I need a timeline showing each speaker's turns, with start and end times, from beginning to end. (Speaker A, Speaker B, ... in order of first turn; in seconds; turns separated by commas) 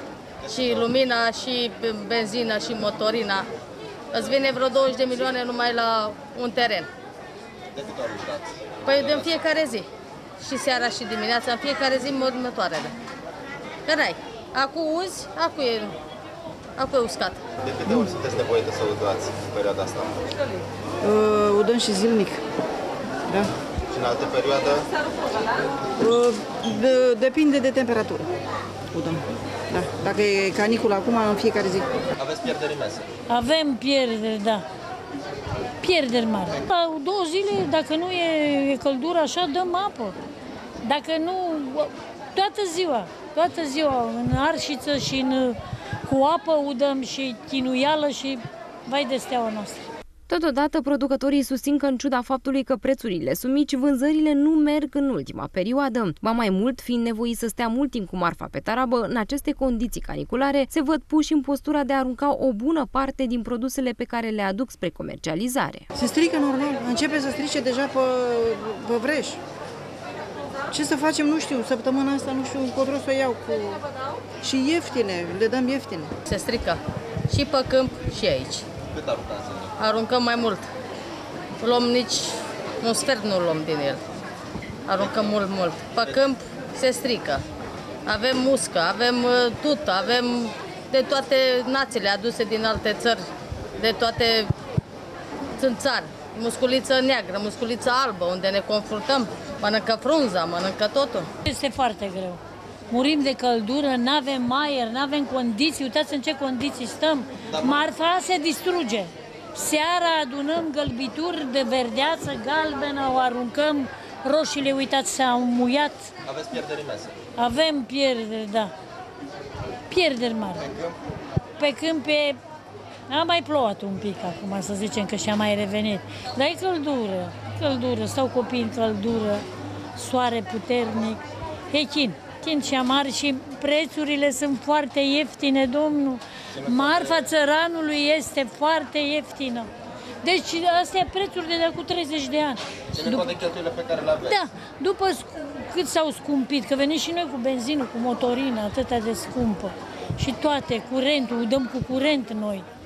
Speaker A: 0.4-3.5, Speaker B: 0.5-0.8, Speaker A: 4.1-6.9, Speaker B: 7.7-9.3, Speaker A: 8.8-9.9, Speaker A: 10.4-12.9, Speaker A: 13.8-15.9, Speaker A: 16.8-17.4, Speaker B: 17.6-20.2, Speaker C: 21.0-22.4, Speaker B: 23.9-24.9, Speaker C: 26.0-28.3, Speaker C: 28.9-32.0, Speaker B: 32.2-33.1, Speaker D: 33.3-34.6, Speaker D: 35.8-40.2, Speaker D: 40.8-49.9, Speaker E: 50.3-65.8, Speaker C: 65.9-69.4, Speaker C: 70.7-73.8, Speaker C: 74.4-76.1, Speaker A: 76.2-78.7, Speaker B: 78.9-79.7, Speaker A: 79.8-80.7, Speaker A: 81.6-84.0, Speaker A: 84.8-87.4, Speaker B: 85.0-85.3, Speaker A: 88.0-93.2, Speaker A: 93.8-94.5, Speaker A: 95.6-101.3, Speaker D: 101.4-116.1, Speaker B: 107.5-107.8, Speaker B: 116.2-117.1, Speaker D: 117.3-118.7, Speaker D: 119.9-120.7, Speaker D: 121.6-122.4, Speaker D: 123.1-139.7, Speaker B: 136.6-137.2, Speaker D: 140.2-143.3, Speaker B: 142.9-144.3, Speaker D: 144.2-152.7